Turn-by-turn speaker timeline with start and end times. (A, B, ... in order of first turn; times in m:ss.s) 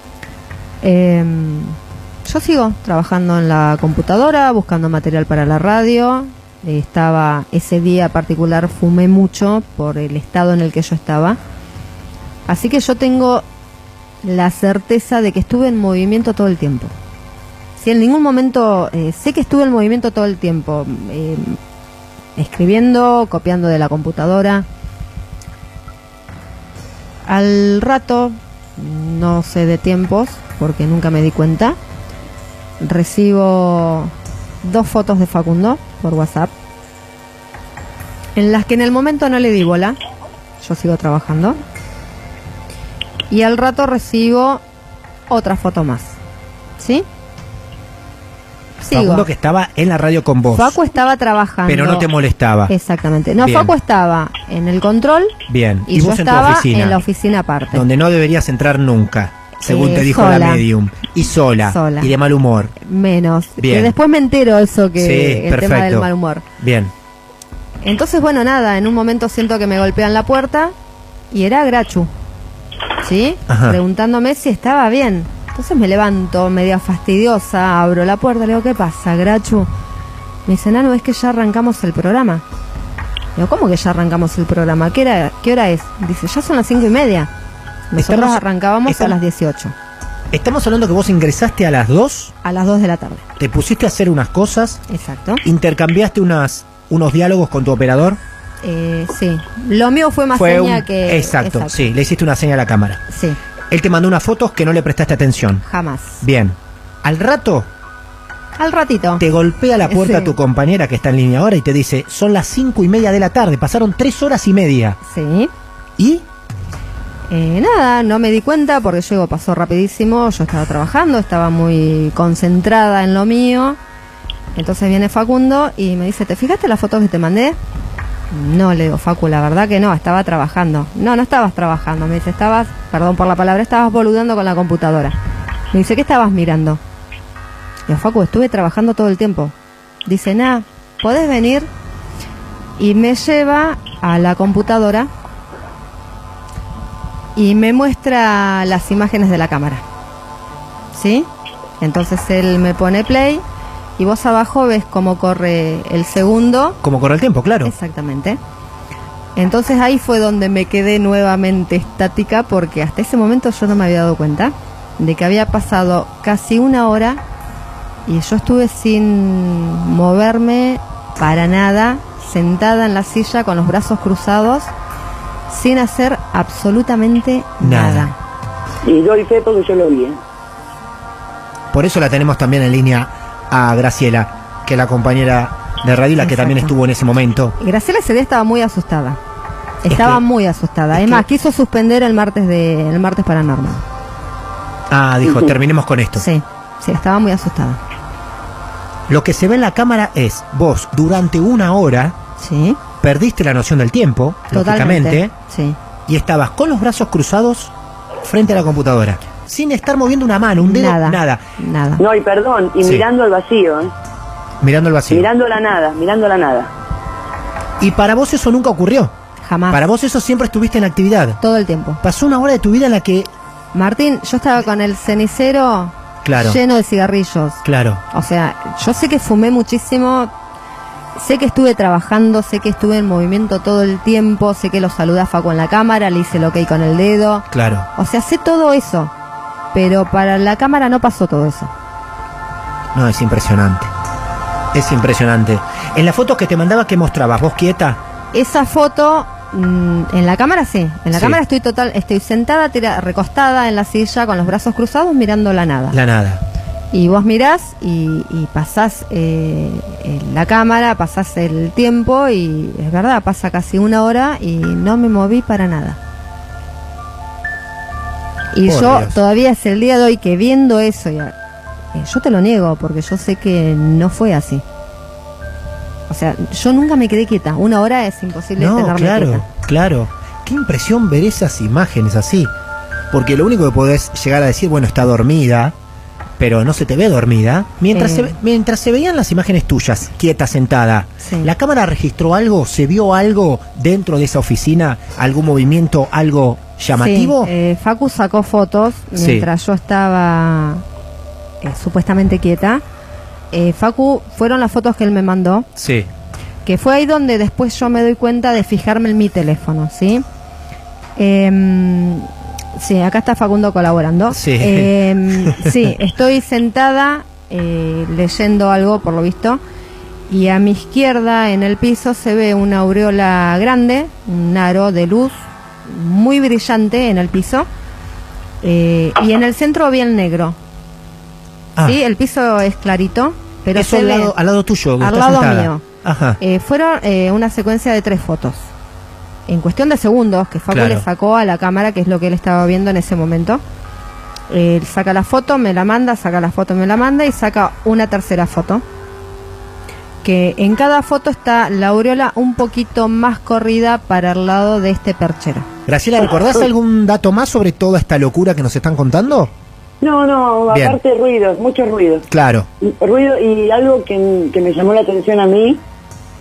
0:00.8-0:11.4 A
0:12.5-0:13.4 A
0:14.2-0:16.9 A
0:17.8-0:21.6 A
0:22.4-0:24.7 A
0:27.2-0:31.8 A
0:32.8-0:36.5 A
0:38.4-0:40.0 A
0:40.6-0:41.6 A
0:43.3-0:44.6 A
0:45.3-0:46.2 A
0:46.8-0:47.1 A
0:48.8-0:49.3 A
0:48.9-0:50.8 B
0:50.5-0:52.1 A
0:51.7-0:52.7 B
0:52.7-0:57.8 A
0:53.4-0:53.7 B
0:55.5-0:57.0 B
0:57.7-1:02.8 B
0:59.6-1:00.6 A
1:01.6-1:02.1 A
1:02.8-1:06.5 A
1:03.6-1:04.0 B
1:05.0-1:06.1 B
1:06.6-1:06.9 B
1:07.8-1:10.7 A
1:11.3-1:12.1 A
1:13.0-1:19.7 A
1:13.5-1:13.8 B
1:20.5-1:22.4 A
1:23.4-1:27.3 A
1:27.9-1:29.8 A
1:28.0-1:29.2 B
1:30.3-1:32.3 B
1:32.4-1:33.3 A
1:33.4-1:34.8 B
1:34.9-1:35.4 A
1:35.4-1:38.2 B
1:38.6-1:41.8 A
1:40.4-1:43.0 B
1:43.1-1:43.4 A
1:43.7-1:45.6 B
1:45.6-1:46.2 A
1:46.2-1:47.7 B
1:48.6-1:49.2 A
1:49.2-1:55.0 B
1:49.9-1:50.4 A
1:55.0-1:55.5 A
1:56.0-1:56.3 B
1:57.3-2:03.8 A
2:04.6-2:07.6 A
2:08.3-2:15.2 A
2:15.7-2:16.8 A
2:17.9-2:19.5 A
2:20.0-2:21.7 A
2:22.8-2:25.1 A
2:27.4-2:29.8 A
2:30.9-2:33.4 A
2:34.0-2:36.8 A
2:36.8-2:37.7 B
2:37.6-2:38.4 A
2:39.4-2:47.2 A
2:48.1-2:54.7 A
2:55.5-2:58.2 A
2:57.6-2:58.1 B
2:58.8-3:00.2 C
3:01.7-3:07.6 B
3:06.2-3:06.7 A
3:07.6-3:09.2 A
3:09.8-3:13.8 A
3:09.9-3:10.2 B
3:10.9-3:11.2 B
3:14.9-3:16.3 B
3:15.3-3:15.5 C
3:16.2-3:17.8 A
3:19.1-3:22.2 B
3:22.4-3:22.8 A
3:23.0-3:25.3 B
3:24.5-3:25.8 A
3:26.1-3:31.4 B
3:30.6-3:32.0 A
3:32.0-3:33.9 C
3:34.6-3:35.3 B
3:35.1-3:36.7 C
3:37.8-3:39.1 B
3:39.4-3:39.9 A
3:39.7-3:41.4 B
3:41.4-3:42.0 A
3:42.0-3:43.3 B
3:43.7-3:50.3 A
3:46.2-3:46.6 B
3:47.6-3:48.0 B
3:51.2-3:59.1 A
3:57.5-3:57.9 B
3:59.7-4:01.7 A
4:03.0-4:03.9 B
4:04.7-4:08.0 B
4:08.3-4:16.0 A
4:11.1-4:11.4 B
4:15.9-4:16.4 B
4:16.9-4:26.0 A
4:28.5-4:31.4 A
4:28.6-4:29.2 B
4:31.9-4:34.6 A
4:36.1-4:39.4 A
4:38.6-4:42.5 B
4:43.1-4:45.8 B
4:46.4-4:57.5 B
4:47.9-4:48.4 A
4:51.2-4:51.5 A
4:57.0-5:00.8 A
4:59.2-4:59.5 B
5:01.6-5:02.8 A
5:03.5-5:05.7 A
5:05.8-5:06.1 B
5:06.6-5:10.2 A
5:11.2-5:19.6 A
5:14.3-5:15.7 B
5:20.3-5:27.7 A
5:28.6-5:30.6 A
5:31.8-5:34.3 A
5:33.8-5:36.4 B
5:35.0-5:35.8 A
5:36.4-5:38.7 A
5:39.5-5:43.6 A
5:40.7-5:41.1 B
5:44.5-5:48.8 A
5:50.2-5:55.7 A
5:55.9-5:59.5 B
6:00.0-6:02.3 C
6:00.7-6:01.0 B
6:02.3-6:02.7 B
6:02.8-6:05.8 C